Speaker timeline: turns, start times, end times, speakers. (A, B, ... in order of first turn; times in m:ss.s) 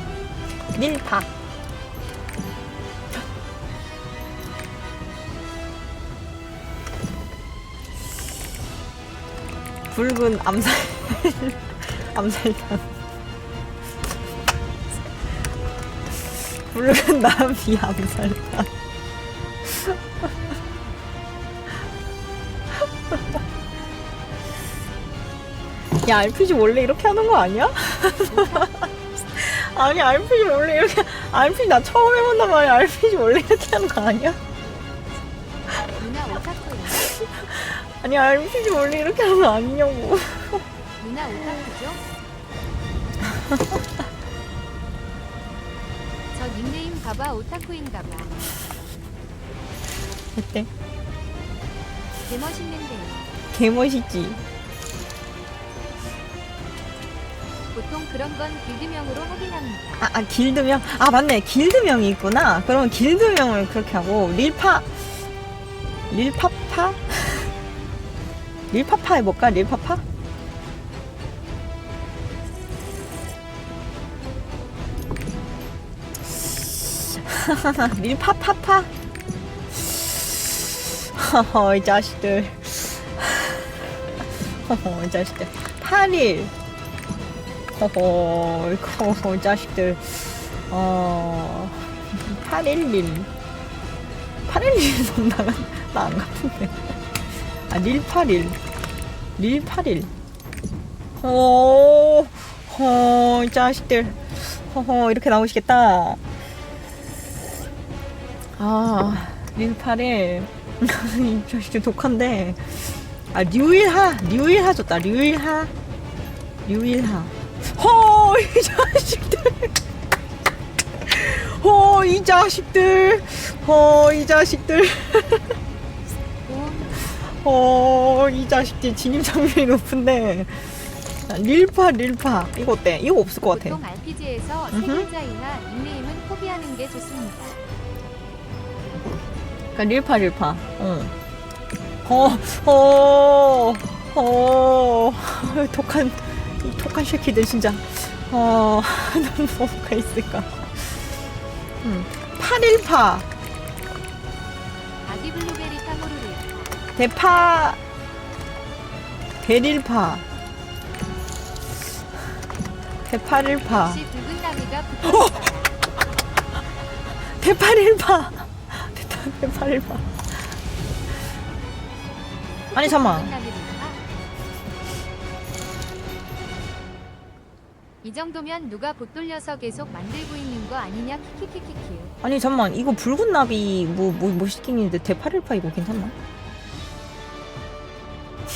0:00.7-0:01.3 A
0:09.9-0:12.8 A
0:16.5-0:18.7 A
0:19.6-0:20.0 A
0:25.9-0:34.4 A
0:28.2-0:28.7 B
0:35.8-0:37.1 B
0:37.0-0:40.6 A
0:41.0-0:42.0 B
0:46.3-0:48.4 B
0:50.3-0:50.7 A
0:52.2-0:53.3 B
0:53.5-0:54.4 A
0:57.7-1:00.0 B
1:00.0-1:05.1 A
1:06.1-1:07.5 A
1:08.7-1:10.0 A
1:17.0-1:18.9 A
1:19.7-1:20.6 A
1:21.1-1:23.8 A
1:24.4-1:26.5 A
1:27.7-1:33.3 A
1:34.5-1:37.0 A
1:37.5-1:38.6 A
1:39.4-1:40.1 A
1:41.2-1:46.2 A
1:48.6-1:55.7 A
1:56.6-1:59.7 A
2:01.0-2:05.6 A
2:06.4-2:07.0 B
2:06.9-2:13.8 A
2:13.5-2:17.6 B
2:14.7-2:15.1 A
2:19.7-2:21.1 A
2:22.0-2:31.1 A
2:31.8-2:33.3 A
2:35.0-2:36.8 B
2:37.0-2:37.8 A
2:39.4-2:40.2 A
2:43.0-2:44.0 A
2:43.6-2:45.8 B
2:45.0-2:45.4 A
2:47.4-2:50.5 A
2:52.7-2:54.0 B
2:52.8-2:53.3 A
2:58.0-3:02.1 B
3:02.2-3:06.1 A